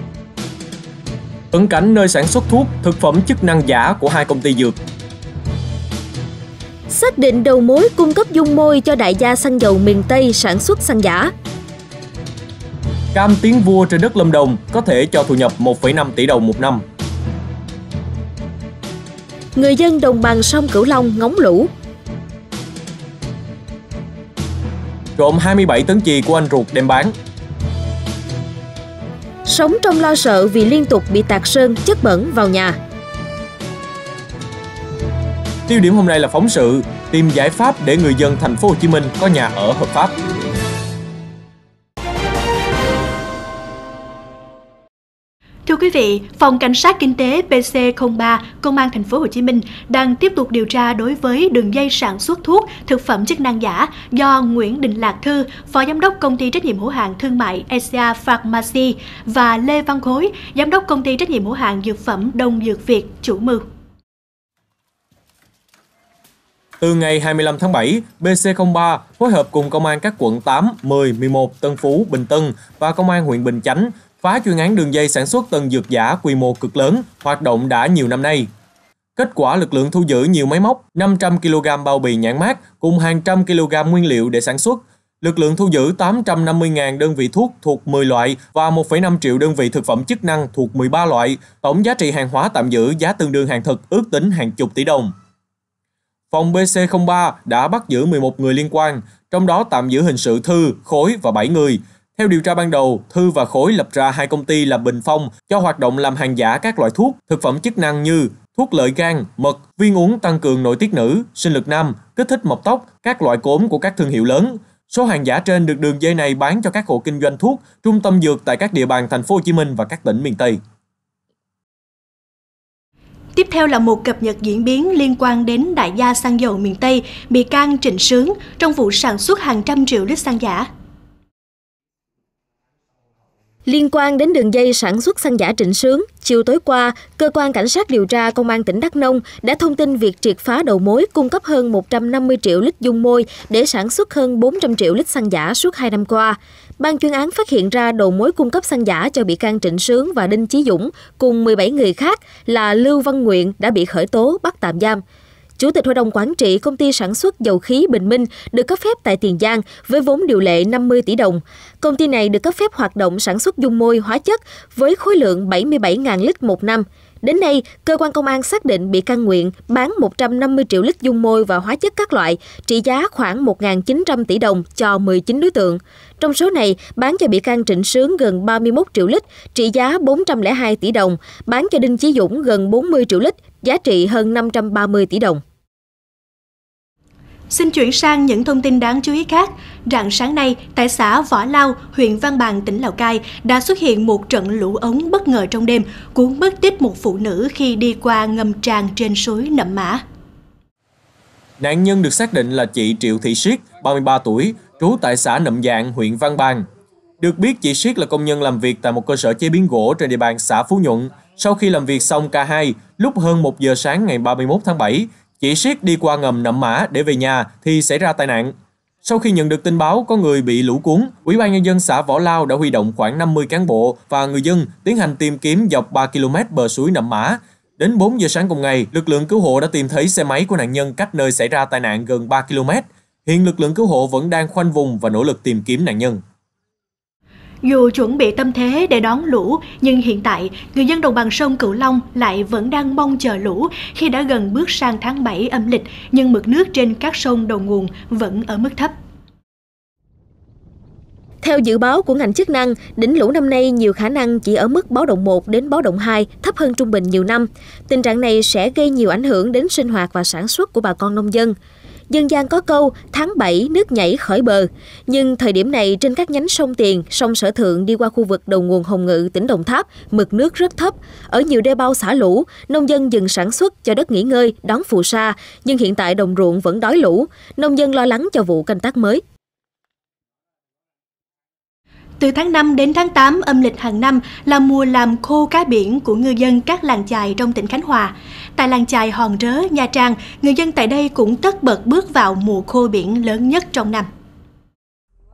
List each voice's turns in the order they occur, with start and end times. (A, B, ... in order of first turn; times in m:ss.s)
0:01.5-0:04.7 A
0:06.9-0:11.3 B
0:13.1-0:16.8 A
0:19.6-0:21.7 B
0:25.2-0:27.1 A
0:29.4-0:32.8 B
0:35.7-0:40.1 A
0:45.6-1:03.6 C
1:06.8-1:18.5 A
1:19.2-1:35.1 A
1:36.3-2:00.6 A
2:03.4-2:10.6 C
2:13.7-2:35.0 B
2:35.6-3:05.4 B
3:07.5-3:20.0 C
3:21.6-3:26.6 A
3:27.2-3:56.2 A
3:57.6-4:08.9 C
4:11.4-4:21.5 B
4:22.1-4:39.2 B
4:42.2-4:54.0 C